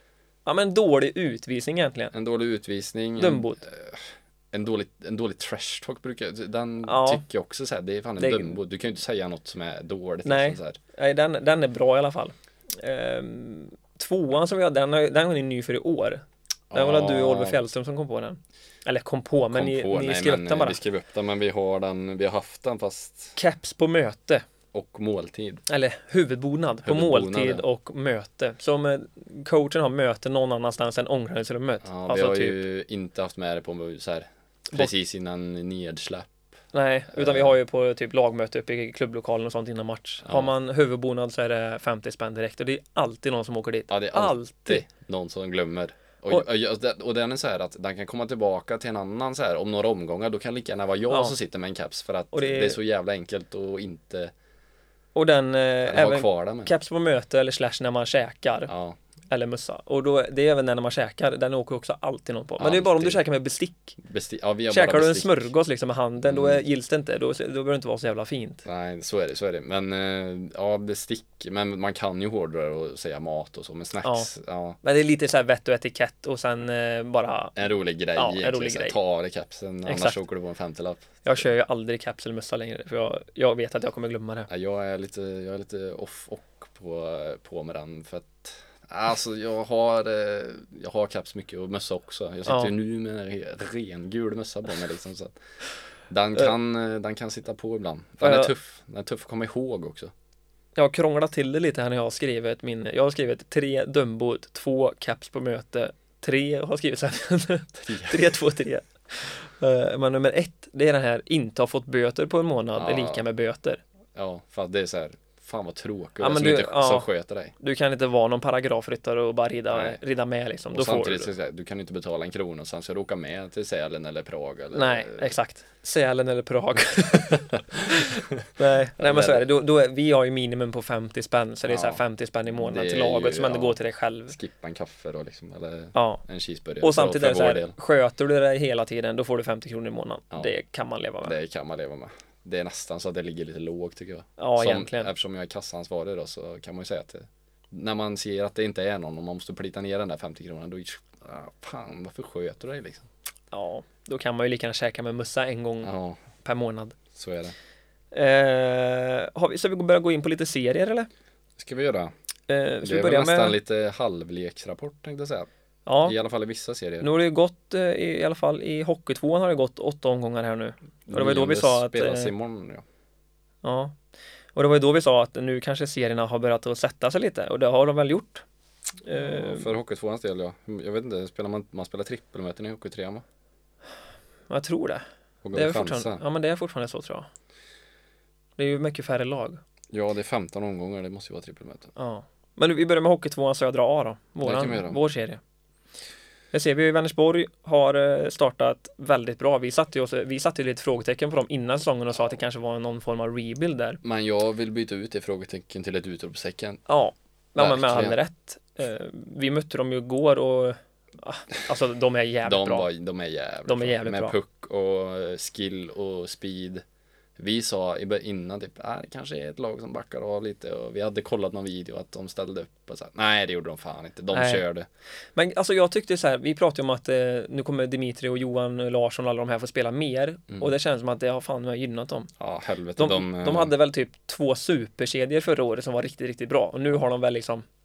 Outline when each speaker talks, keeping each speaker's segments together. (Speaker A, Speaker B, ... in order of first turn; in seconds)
Speaker A: 0.5-2.1, 3.2-3.6, 6.9-7.2, 8.2-8.6, 10.2-20.8, 23.4-24.4, 25.7-32.6, 36.7-44.8, 51.1-51.4, 52.3-52.8, 55.1-58.7, 59.3-64.0, 64.7-68.7, 74.0-74.3, 74.8-77.6, 78.2-79.0, 79.8-80.2, 81.2-84.5, 98.2-98.5, 100.8-113.8, 116.2-121.3, 124.7-134.4, 135.9-136.2, 136.8-141.3, 144.4-145.1, 153.5-155.9, 156.4-157.0, 158.1-161.1, 162.5-163.6, 165.9-166.2, 167.0-172.3, 173.6-174.0, 174.6-178.4, 179.0-179.7, 184.5-187.3, 188.6-189.6, 192.0-195.4, 196.5-204.0, 206.9-212.9, 213.7-214.4, 224.3-224.6, 225.4-232.3, 233.0-237.7
Speaker B: 2.1-10.8, 16.7-17.6, 19.5-23.4, 24.7-25.6, 26.8-27.6, 31.8-36.4, 37.1-37.6, 40.2-40.5, 43.9-54.3, 55.9-56.7, 58.7-59.0, 62.6-63.2, 64.0-65.5, 66.2-66.6, 68.7-74.8, 77.6-81.5, 84.5-95.3, 96.1-100.1, 107.8-108.4, 112.8-113.2, 114.2-117.5, 119.7-120.0, 120.7-125.3, 129.0-129.5, 131.7-133.8, 134.3-137.8, 141.2-153.1, 155.8-156.2, 157.1-157.6, 161.6-162.1, 162.8-165.5, 166.1-167.1, 171.1-172.8, 179.2-183.2, 185.4-186.2, 189.9-191.9, 194.4-195.0, 204.0-206.8, 207.6-208.2, 212.4-216.8, 217.4-224.9, 232.4-233.7